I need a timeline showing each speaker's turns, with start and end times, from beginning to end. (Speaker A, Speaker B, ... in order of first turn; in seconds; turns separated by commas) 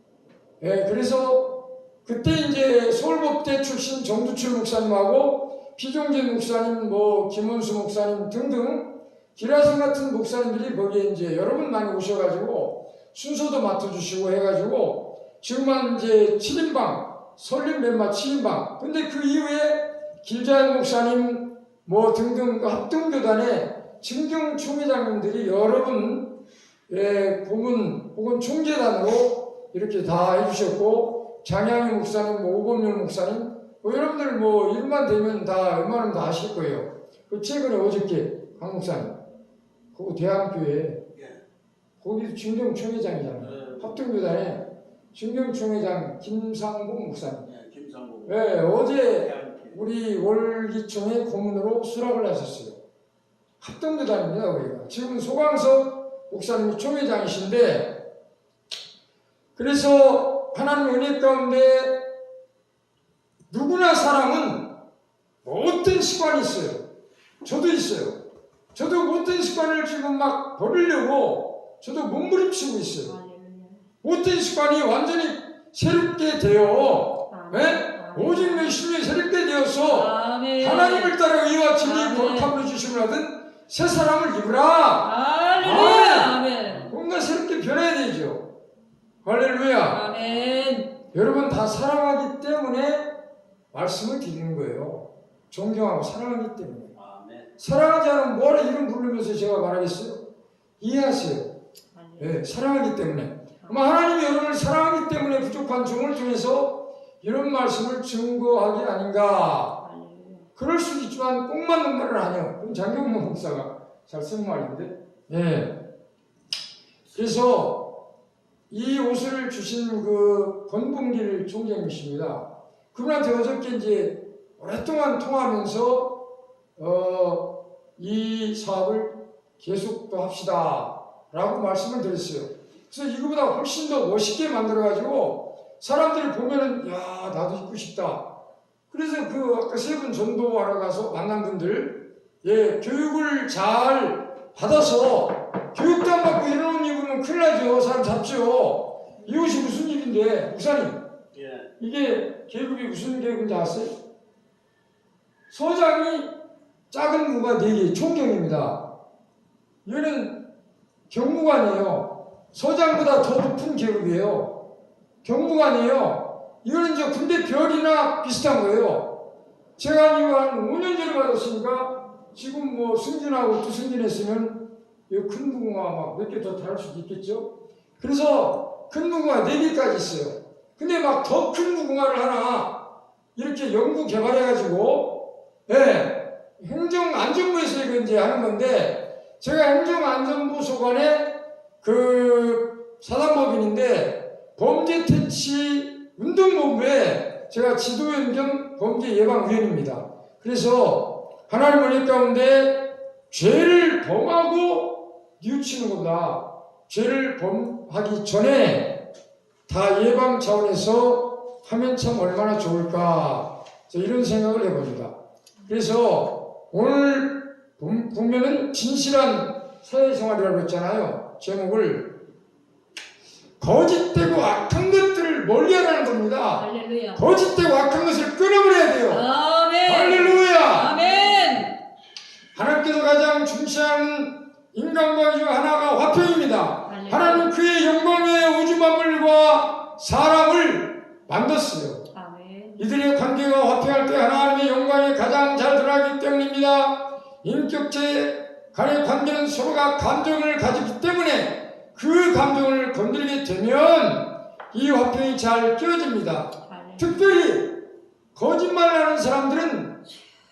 Speaker A: 0.6-26.3, Speaker A: 26.9-39.2, Speaker A: 39.9-41.0, Speaker A: 42.0-47.5, Speaker B: 43.5-43.8, Speaker B: 47.5-48.3, Speaker A: 48.2-52.8, Speaker B: 49.2-49.8, Speaker A: 53.6-58.0, Speaker A: 59.5-62.0, Speaker A: 63.5-64.7, Speaker A: 65.4-66.8, Speaker A: 67.4-68.2, Speaker A: 68.7-73.1, Speaker C: 73.0-73.8, Speaker A: 74.0-88.4, Speaker C: 77.3-78.7, Speaker C: 79.8-81.1, Speaker C: 81.8-82.5, Speaker C: 85.0-86.9, Speaker A: 89.2-90.0, Speaker C: 89.9-91.0, Speaker A: 91.1-93.1, Speaker A: 93.7-96.9, Speaker B: 97.0-97.5, Speaker A: 97.6-100.2, Speaker A: 100.8-101.5, Speaker C: 101.9-102.4, Speaker A: 102.2-109.8, Speaker C: 103.6-103.8, Speaker C: 109.8-110.5, Speaker A: 110.5-115.8, Speaker A: 117.1-118.0, Speaker A: 118.7-126.2, Speaker A: 126.8-138.2, Speaker A: 138.9-151.0, Speaker B: 151.3-151.7, Speaker A: 151.8-154.0, Speaker A: 155.5-156.3, Speaker A: 156.9-158.9, Speaker A: 159.8-160.4, Speaker A: 161.1-164.6, Speaker A: 165.2-169.2, Speaker A: 169.8-182.8, Speaker A: 183.3-209.0, Speaker A: 209.7-215.1, Speaker A: 215.7-222.2, Speaker A: 223.6-229.2, Speaker C: 226.5-227.2, Speaker C: 229.1-231.8, Speaker A: 229.8-230.9, Speaker A: 232.5-242.1, Speaker C: 236.8-237.5, Speaker C: 242.1-242.8, Speaker A: 242.8-260.0, Speaker C: 256.6-257.4